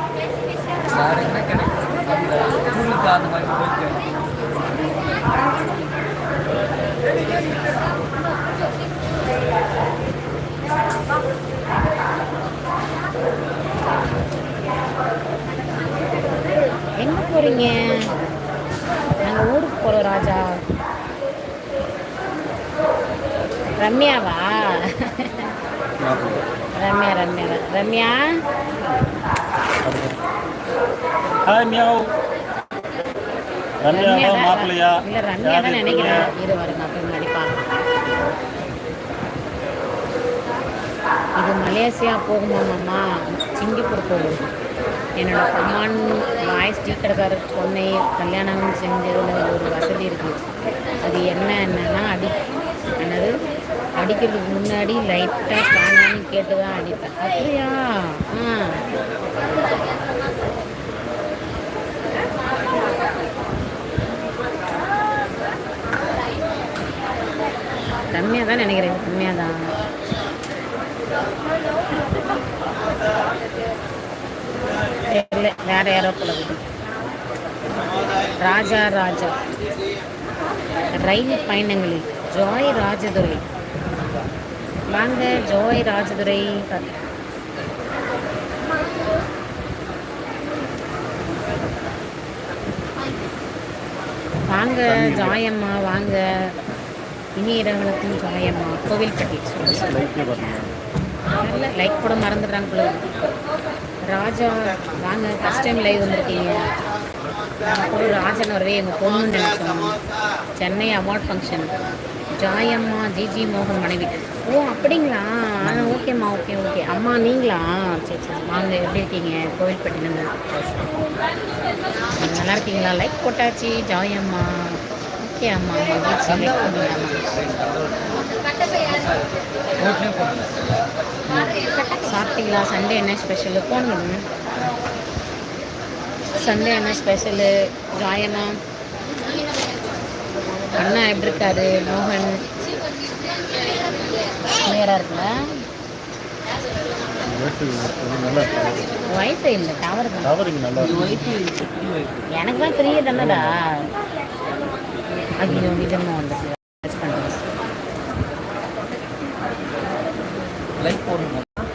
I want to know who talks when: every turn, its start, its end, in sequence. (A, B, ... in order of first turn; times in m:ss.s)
0:00.9-0:04.1 A
0:17.0-0:17.8 B
0:19.2-0:20.4 B
0:23.8-0:25.4 B
0:26.0-0:26.5 C
0:26.8-0:28.3 B
0:29.8-0:30.2 C
0:31.5-0:32.1 C
0:33.8-0:36.2 C
0:33.9-0:37.6 B
0:41.4-0:44.4 B
0:45.2-0:50.4 B
0:51.0-0:52.4 B
0:53.0-0:53.3 B
0:54.0-0:58.8 B
1:08.1-1:09.7 B
1:15.1-1:16.6 B
1:18.4-1:19.4 B
1:20.9-1:23.4 B
1:24.9-1:26.9 B
1:34.5-1:36.2 B
1:34.8-1:35.4 C
1:37.4-1:40.0 B
1:39.6-1:40.7 C
1:41.4-1:43.0 B
1:44.1-1:46.6 B
1:47.6-1:50.0 B
1:50.6-1:51.7 B
1:52.3-2:00.3 B
2:02.2-2:07.2 B
2:06.2-2:09.3 A
2:09.8-2:10.6 A
2:12.0-2:14.2 B
2:16.4-2:18.6 B
2:20.8-2:22.4 B
2:24.6-2:25.3 B
2:27.3-2:28.9 C
2:29.1-2:31.4 B
2:30.2-2:31.1 C
2:30.8-2:32.3 A
2:32.3-2:33.6 B
2:33.1-2:33.6 C
2:35.4-2:37.4 B
2:40.8-2:41.6 A